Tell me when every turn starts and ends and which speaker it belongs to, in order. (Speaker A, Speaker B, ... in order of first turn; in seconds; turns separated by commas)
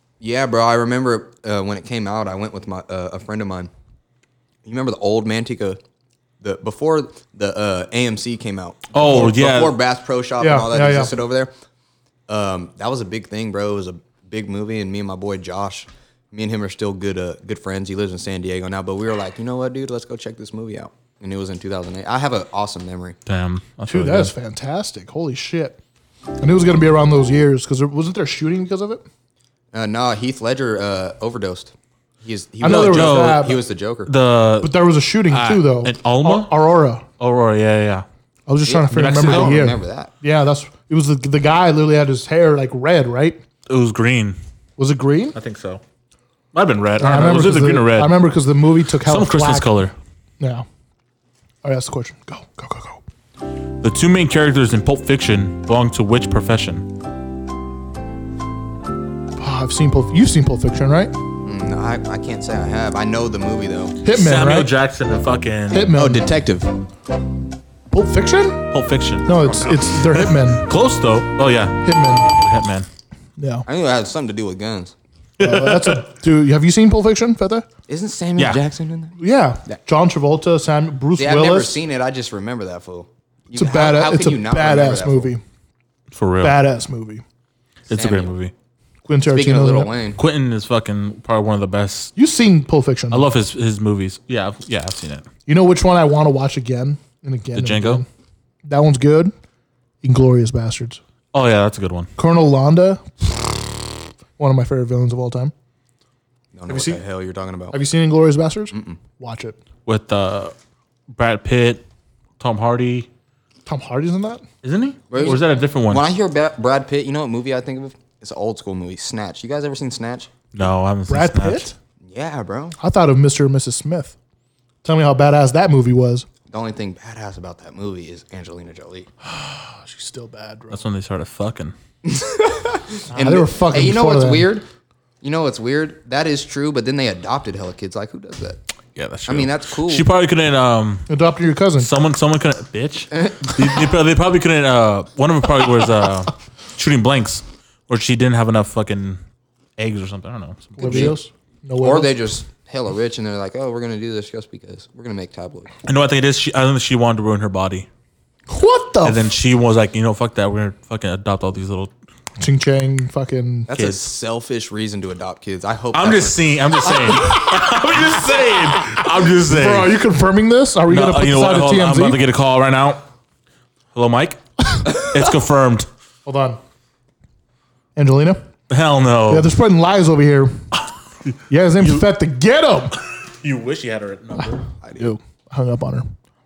Speaker A: 0.2-3.7, Speaker A: 4.6-5.8, Speaker A: 6.4-11.5, Speaker B: 8.9-9.8, Speaker C: 10.4-11.1, Speaker A: 12.3-23.2, Speaker B: 23.3-24.3, Speaker C: 23.9-25.8, Speaker C: 26.4-29.0, Speaker A: 29.7-34.1, Speaker C: 32.6-33.6, Speaker B: 32.6-33.5, Speaker B: 34.1-34.8, Speaker C: 34.6-37.0, Speaker B: 35.3-36.5, Speaker B: 37.2-38.0, Speaker C: 38.5-43.4, Speaker A: 38.6-40.1, Speaker B: 38.9-39.6, Speaker B: 43.7-44.4, Speaker C: 44.8-45.4, Speaker B: 45.3-45.8, Speaker B: 46.5-48.2, Speaker C: 47.0-49.7, Speaker B: 49.0-49.9, Speaker C: 50.4-50.7, Speaker C: 51.6-53.0, Speaker B: 53.8-56.9, Speaker C: 59.4-61.1, Speaker A: 61.4-64.0, Speaker C: 64.0-64.7, Speaker B: 64.1-65.9, Speaker C: 65.7-66.3, Speaker A: 65.8-66.8, Speaker C: 67.9-68.7, Speaker B: 68.7-72.9, Speaker C: 69.2-70.7, Speaker C: 71.8-72.3, Speaker C: 73.4-73.7, Speaker A: 73.7-74.9, Speaker B: 75.4-76.0, Speaker C: 75.4-77.7, Speaker A: 77.9-79.2, Speaker C: 79.2-81.8, Speaker A: 81.2-85.3, Speaker C: 83.5-85.4, Speaker B: 86.1-86.6, Speaker C: 86.4-87.2, Speaker B: 87.9-88.5, Speaker A: 87.9-88.3, Speaker C: 89.1-89.9, Speaker A: 89.3-90.2, Speaker B: 90.2-92.1, Speaker C: 92.2-93.3, Speaker B: 93.1-95.3, Speaker C: 95.5-98.1, Speaker B: 97.5-98.0, Speaker C: 98.7-99.3, Speaker C: 100.0-101.0, Speaker B: 101.3-102.1, Speaker C: 102.2-103.0, Speaker C: 104.4-105.5, Speaker A: 106.5-107.8, Speaker C: 106.7-107.0, Speaker C: 107.7-109.6, Speaker A: 108.7-109.0, Speaker B: 109.9-110.5, Speaker B: 111.1-111.8, Speaker B: 112.4-113.1, Speaker C: 113.7-114.4, Speaker B: 114.6-116.1, Speaker A: 115.1-120.3, Speaker B: 120.5-121.7, Speaker C: 121.1-121.7, Speaker A: 122.1-122.8, Speaker C: 122.8-124.2, Speaker C: 124.8-126.3, Speaker A: 126.5-129.1, Speaker C: 129.2-130.8, Speaker B: 130.7-131.7, Speaker A: 132.0-134.7, Speaker C: 133.1-134.5, Speaker A: 135.2-138.6, Speaker B: 138.9-141.1, Speaker A: 139.3-140.1, Speaker C: 141.1-141.9, Speaker B: 141.8-149.2, Speaker A: 143.1-143.5, Speaker B: 149.8-151.2, Speaker C: 150.8-152.1, Speaker A: 150.8-151.2, Speaker A: 151.8-155.7, Speaker B: 155.8-157.9, Speaker C: 158.5-159.3, Speaker B: 159.0-161.9, Speaker C: 162.4-163.7, Speaker A: 163.7-166.5, Speaker B: 163.7-164.1, Speaker B: 165.9-170.0, Speaker C: 168.5-172.2, Speaker B: 170.9-173.0, Speaker B: 173.9-175.9, Speaker C: 176.3-176.6, Speaker C: 178.0-178.4, Speaker B: 178.7-179.5, Speaker C: 179.3-180.6, Speaker C: 181.5-182.9, Speaker B: 183.4-184.6, Speaker A: 184.8-185.1, Speaker C: 185.0-186.1